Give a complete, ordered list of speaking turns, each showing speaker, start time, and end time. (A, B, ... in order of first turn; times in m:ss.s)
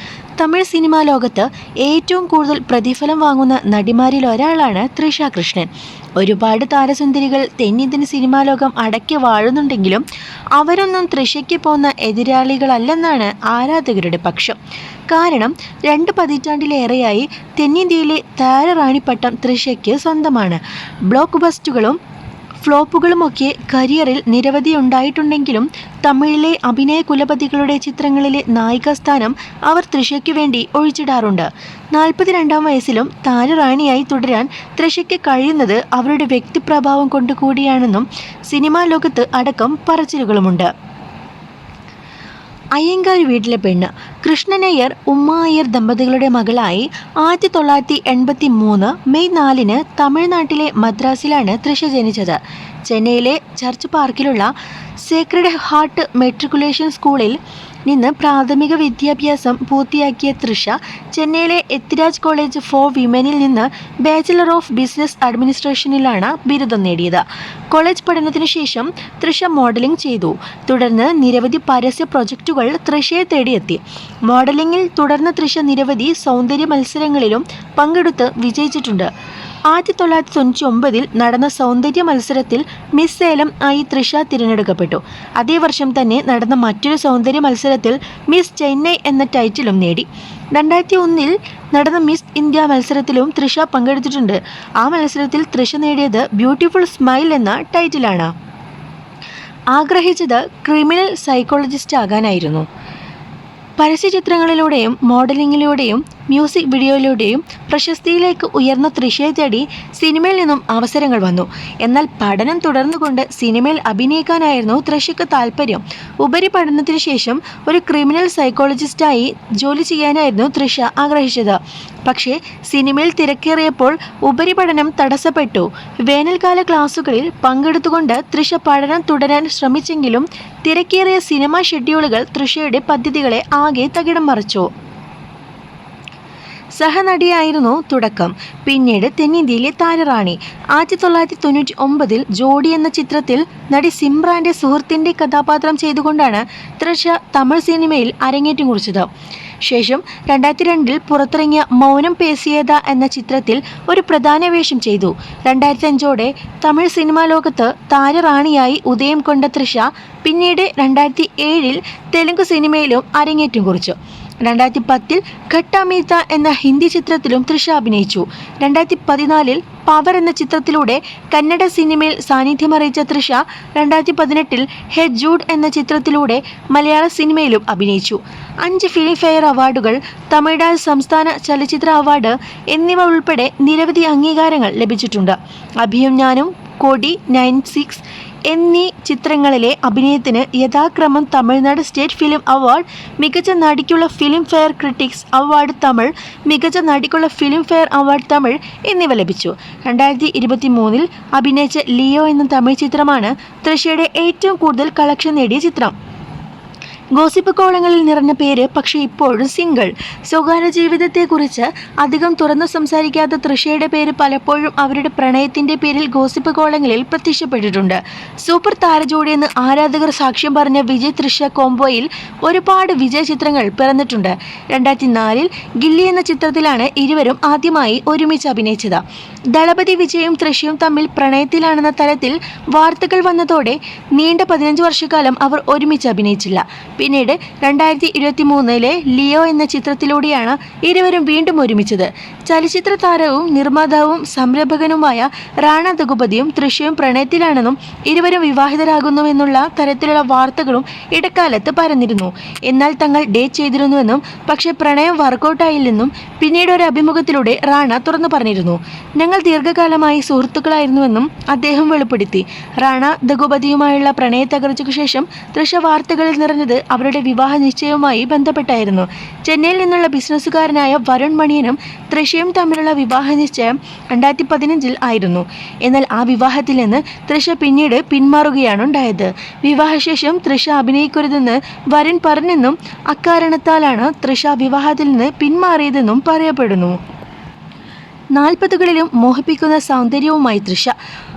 0:00.4-0:10.0 A
0:10.6-0:14.6 A
0:15.1-0:22.0 A
0:22.6-0:40.7 A
0:42.8-0:54.5 A
0:55.0-1:19.1 A
1:19.7-1:38.3 A
1:39.7-1:42.6 A
1:43.8-2:14.7 A
2:16.8-2:29.1 A
2:29.6-3:25.9 A
3:27.1-4:47.0 A
4:48.3-4:50.9 A